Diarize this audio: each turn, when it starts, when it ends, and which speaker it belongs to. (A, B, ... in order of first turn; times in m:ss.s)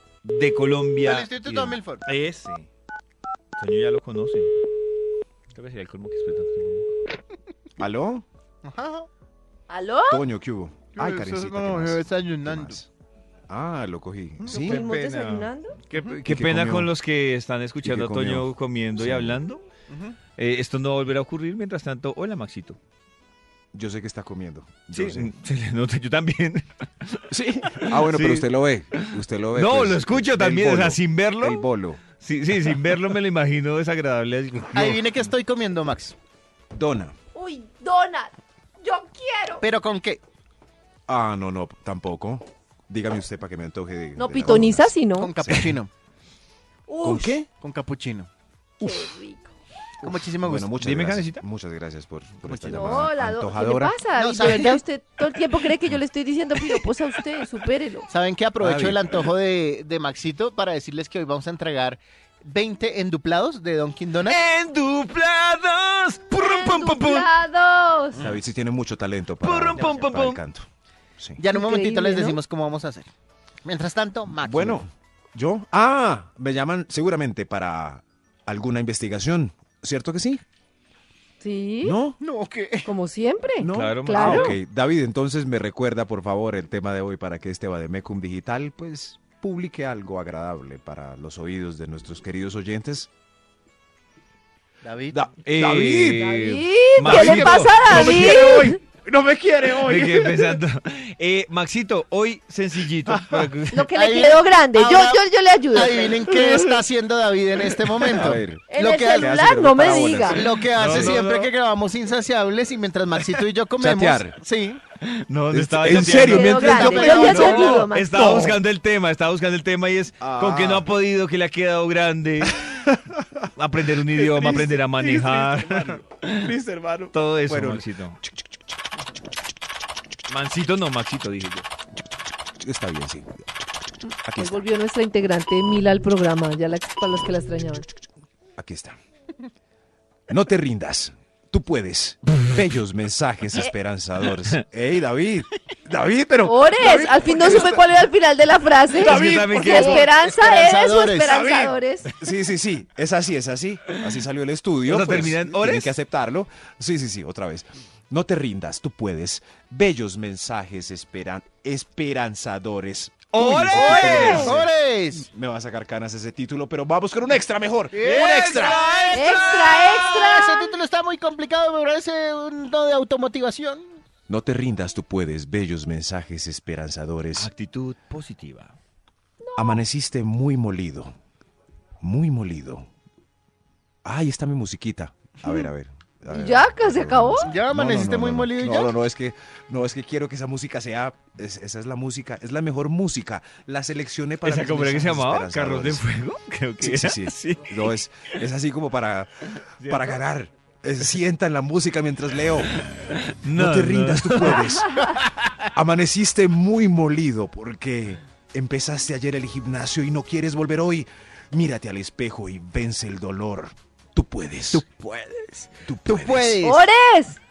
0:00.2-0:02.7 A
0:01.0-0:02.0 B
0:03.6-0:04.5 A
0:05.5-0:06.9 A
0:07.8-0:08.2 C
0:08.6-0:09.1 B
0:09.7-0:10.2 D
0:10.1-0:12.9 C
0:11.0-0:12.8 B
0:13.5-0:15.4 C
0:14.5-0:19.6 A
0:14.5-0:15.8 D
0:16.2-0:16.9 C
0:17.8-0:19.4 C
0:19.9-0:20.2 B
0:20.4-0:22.8 A
0:23.7-0:25.3 C
0:24.9-0:31.7 A
0:27.3-0:32.0 C
0:32.2-0:35.2 A
0:34.7-0:36.2 B
0:36.7-0:37.2 C
0:37.3-0:39.6 D
0:39.6-0:40.2 B
0:41.1-0:45.7 C
0:44.2-0:45.3 D
0:45.1-0:45.9 B
0:46.9-0:47.3 D
0:47.0-0:47.4 C
0:47.5-0:48.3 B
0:48.8-0:49.5 D
0:50.0-0:50.7 B
0:50.0-0:54.0 C
0:50.8-0:51.4 A
0:52.4-0:53.1 B
0:52.7-0:58.1 D
0:54.2-0:54.8 B
0:58.1-1:04.4 B
0:58.6-0:59.2 C
1:04.2-1:07.3 A
1:06.4-1:08.3 D
1:08.2-1:10.6 C
1:09.4-1:10.4 A
1:09.8-1:10.0 B
1:11.4-1:13.1 B
1:11.5-1:12.4 D
1:13.6-1:14.8 B
1:14.4-1:20.4 C
1:21.4-1:22.0 D
1:21.8-1:22.2 C
1:22.2-1:22.9 B
1:22.8-1:24.6 D
1:23.6-1:33.1 C
1:23.7-1:24.5 A
1:34.8-1:35.2 B
1:35.1-1:36.2 C
1:35.4-1:38.4 A
1:36.2-1:38.8 D
1:37.0-1:40.5 C
1:39.8-1:43.9 A
1:43.1-1:43.4 C
1:43.7-1:46.4 D
1:43.9-1:54.8 B
1:48.1-1:51.2 C
1:48.7-1:50.4 D
1:50.7-1:51.5 A
1:53.8-1:54.4 C
1:55.0-2:02.6 A
1:55.5-1:57.5 C
1:55.9-1:58.4 D
1:56.4-1:57.9 B
1:58.1-1:58.6 C
2:00.2-2:00.9 C
2:02.4-2:03.4 C
2:03.6-2:06.5 A
2:04.1-2:08.6 C
2:07.1-2:08.2 A
2:10.3-2:11.7 A
2:12.6-2:13.4 C
2:14.2-2:14.7 C
2:14.4-2:17.8 D
2:18.6-2:19.0 C
2:20.3-2:27.9 C
2:26.4-2:32.1 D
2:28.9-2:30.1 C
2:29.0-2:30.0 A
2:30.0-2:31.4 B
2:31.2-2:48.9 C
2:34.8-2:35.9 A
2:43.3-2:44.6 A
2:43.4-2:45.3 B
2:44.0-2:44.5 D
2:47.9-2:49.0 B
2:48.0-2:50.3 A
2:49.1-2:50.7 D
2:50.0-2:53.8 B
2:54.3-2:57.5 C
2:57.4-2:58.8 A
2:59.4-2:59.8 D
2:59.6-3:01.1 C
3:02.0-3:02.9 C
3:04.0-3:16.0 C
3:06.3-3:07.5 D
3:07.4-3:08.9 B
3:14.4-3:17.9 A
3:16.8-3:22.7 C
3:19.8-3:20.2 A
3:23.0-3:24.7 A
3:23.5-3:25.1 C
3:25.7-3:34.8 C
3:34.7-3:36.9 B
3:35.8-3:36.6 C
3:36.6-3:37.4 D